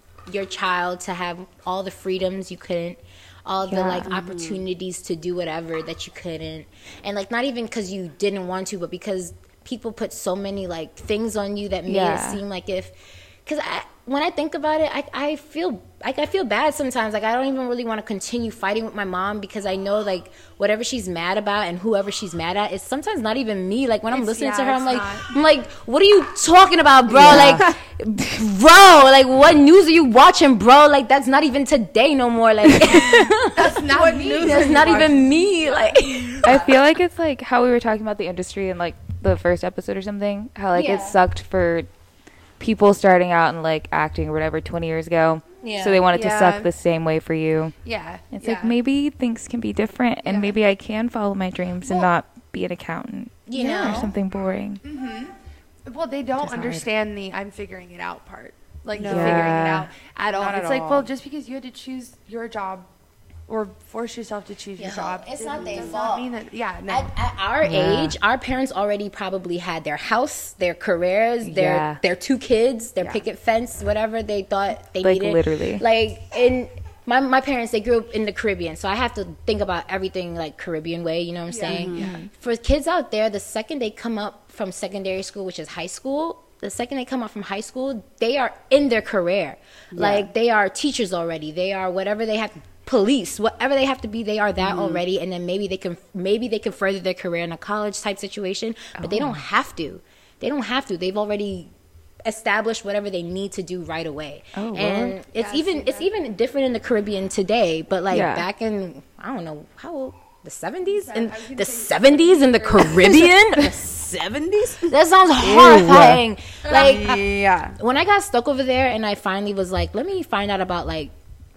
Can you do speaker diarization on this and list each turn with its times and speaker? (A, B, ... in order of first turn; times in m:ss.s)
0:00.2-0:33.8 A
0:03.7-0:04.1 B
0:04.1-0:04.6 C
0:11.9-0:12.4 B
0:24.1-0:25.3 D
0:27.1-0:27.8 C
0:27.2-0:27.6 B
0:32.8-0:33.3 B
0:33.5-0:36.7 D
0:33.9-0:35.3 C
0:34.4-0:36.7 A
0:36.4-0:41.9 B
0:40.7-0:41.2 A
0:42.6-0:47.8 B
0:45.6-0:46.1 A
0:46.1-0:46.7 D
0:47.8-0:48.7 D
0:48.3-0:54.8 B
0:50.2-0:50.6 D
0:53.5-0:54.1 A
0:53.6-0:54.1 D
0:54.8-1:02.9 D
0:56.4-0:56.8 B
0:58.9-0:59.7 C
0:59.0-0:59.9 B
1:00.3-1:01.1 C
1:03.5-1:07.1 D
1:04.8-1:06.3 A
1:05.6-1:06.0 C
1:06.9-1:41.7 A
1:07.6-1:08.1 B
1:11.4-1:12.0 B
1:15.0-1:15.8 B
1:21.5-1:22.2 D
1:21.7-1:22.1 C
1:21.9-1:22.3 B
1:29.9-1:30.3 C
1:34.6-1:35.0 C
1:39.0-1:39.4 B
1:42.2-1:53.7 A
1:44.5-1:45.2 B
1:45.3-1:46.1 D
1:48.1-1:48.4 B
1:50.8-1:53.0 D
1:52.9-1:57.8 C
1:54.9-1:57.2 A
1:55.7-1:56.1 B
1:56.6-1:57.0 D
1:57.8-2:01.1 A